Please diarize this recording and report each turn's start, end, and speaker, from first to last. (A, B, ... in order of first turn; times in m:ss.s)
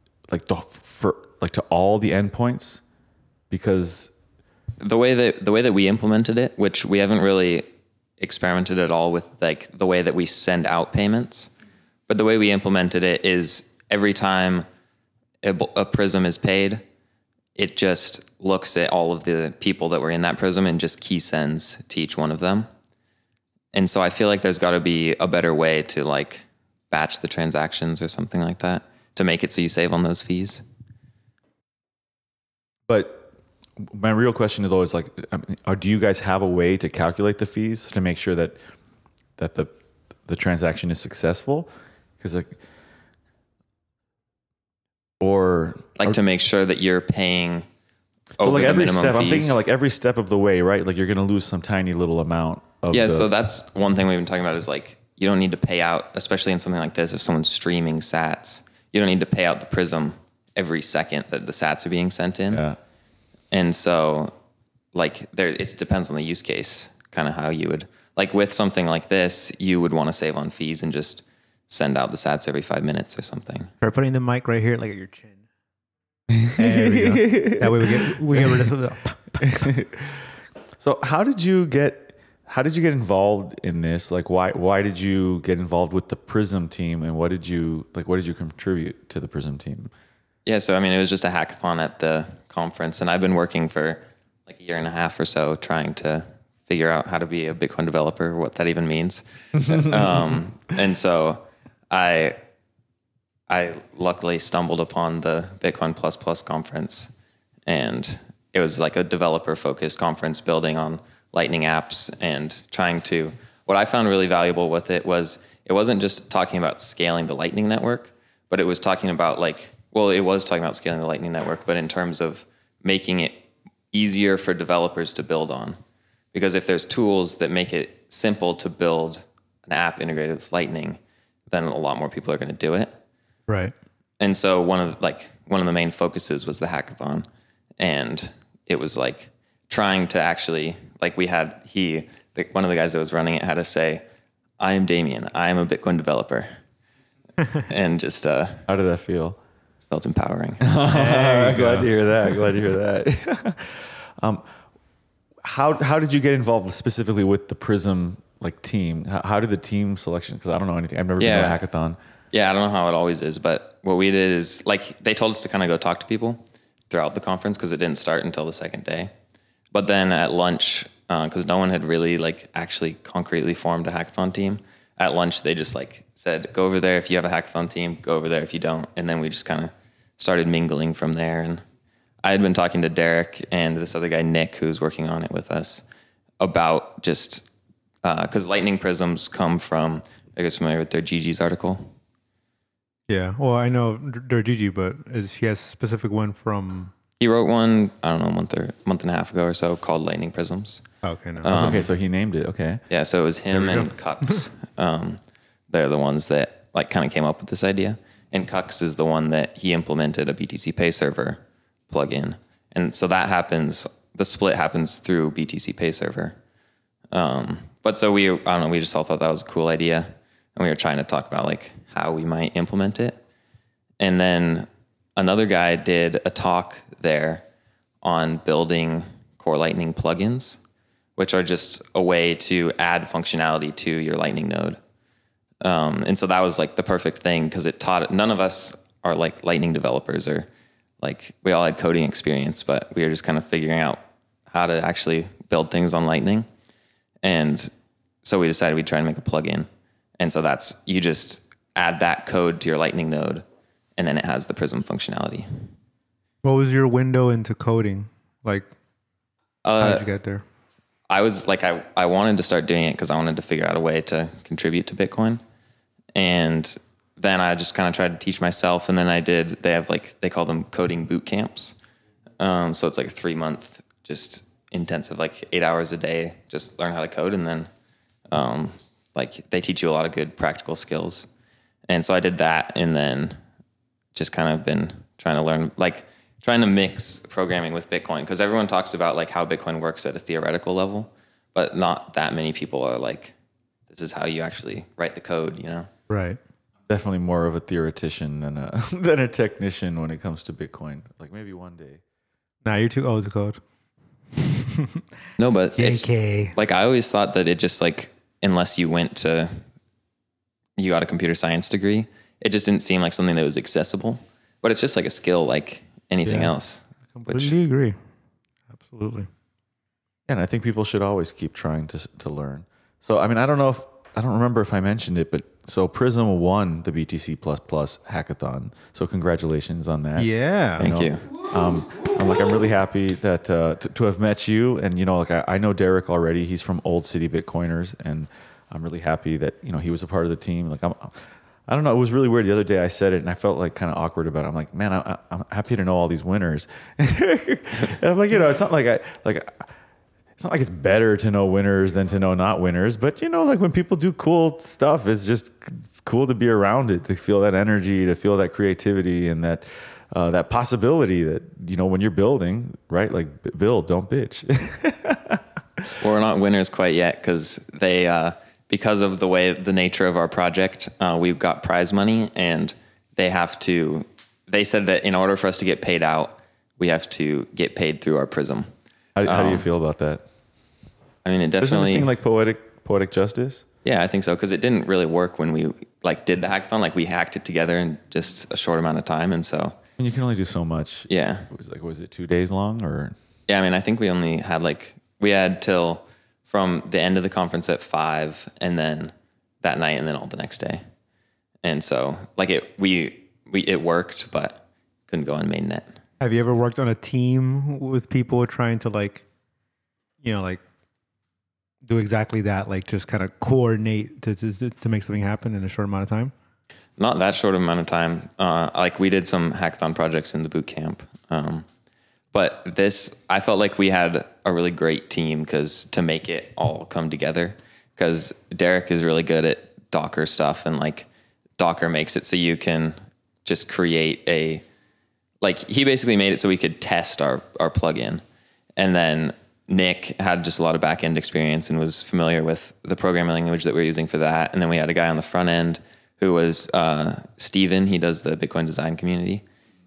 0:00.3-0:02.8 A
0:03.5-0:04.1 A
0:04.8-0:07.6 B
0:08.2-0:11.5 B
0:12.1-0:14.7 B
0:15.4-0:16.8 B
0:17.6-0:22.7 B
0:23.7-0:30.6 B
0:32.9-0:33.3 A
0:33.8-0:38.6 A
0:39.4-0:39.7 A
0:40.3-0:42.6 A
0:45.2-0:46.2 A
0:46.0-0:47.7 B
0:48.4-0:49.6 B
0:48.4-0:53.3 A
0:52.9-1:02.6 B
1:02.5-1:02.8 A
1:03.5-1:04.3 B
1:04.9-1:13.7 B
1:13.8-1:15.4 C
1:16.3-1:18.7 A
1:16.6-1:19.6 C
1:19.4-1:29.9 A
1:30.5-1:42.4 B
1:39.6-1:40.3 A
1:43.5-1:47.1 B
1:47.7-2:05.8 B
2:06.3-2:11.0 B
2:11.5-2:13.0 B
2:13.5-2:13.7 C
2:14.2-2:17.3 B
2:17.8-2:24.0 B
2:24.6-2:26.6 B
2:27.6-2:28.6 B
2:28.7-2:29.4 A
2:29.9-2:30.7 B
2:30.6-2:34.4 A
2:30.9-2:31.9 C
2:35.4-2:42.0 A
2:41.2-2:41.6 B
2:42.3-2:49.1 B
2:49.7-3:01.6 B
3:02.2-3:05.8 B
3:06.4-3:07.4 B
3:08.0-3:11.9 B
3:13.1-3:16.9 C
3:17.2-3:20.8 B
3:21.0-3:21.5 C
3:21.4-3:21.9 B
3:21.5-3:22.8 A
3:22.9-3:36.4 B
3:23.6-3:24.3 C
3:37.1-3:43.2 B
3:44.0-3:47.4 B
3:48.0-3:50.6 B
3:51.2-3:54.8 B
3:55.6-4:00.5 B
4:01.0-4:06.5 B
4:07.2-4:07.7 B
4:08.2-4:09.7 B
4:10.2-4:13.4 B
4:14.0-4:15.7 B
4:16.4-4:18.7 C
4:19.6-4:20.1 B
4:19.8-4:20.4 C
4:21.1-4:25.4 B
4:26.2-4:31.8 B
4:32.4-4:37.7 B
4:38.3-4:41.3 B
4:41.9-4:43.4 B
4:44.1-4:53.3 B
4:53.9-4:55.9 B
4:56.1-4:56.4 C
4:56.9-5:02.0 A
5:02.6-5:03.6 C
5:04.4-5:05.0 C
5:05.4-5:09.6 B
5:05.8-5:06.6 C
5:10.8-5:17.6 B
5:16.3-5:16.6 C
5:17.1-5:18.0 C
5:18.8-5:19.3 C
5:20.3-5:49.7 A
5:30.2-5:30.9 C
5:30.8-5:31.3 B
5:50.4-6:05.9 A
6:06.0-6:18.7 B
6:19.2-6:20.2 A
6:19.2-6:19.6 B
6:21.2-6:22.1 B
6:21.6-6:23.6 A
6:23.8-6:29.8 B
6:30.0-6:33.2 A
6:31.1-6:31.5 B
6:33.5-6:40.8 B
6:41.6-6:45.9 B
6:46.2-6:49.2 C
6:50.2-6:50.6 C
6:51.9-6:56.3 C
6:57.0-7:01.7 B
7:02.3-7:14.6 B
7:15.4-7:18.2 B
7:18.8-7:29.4 B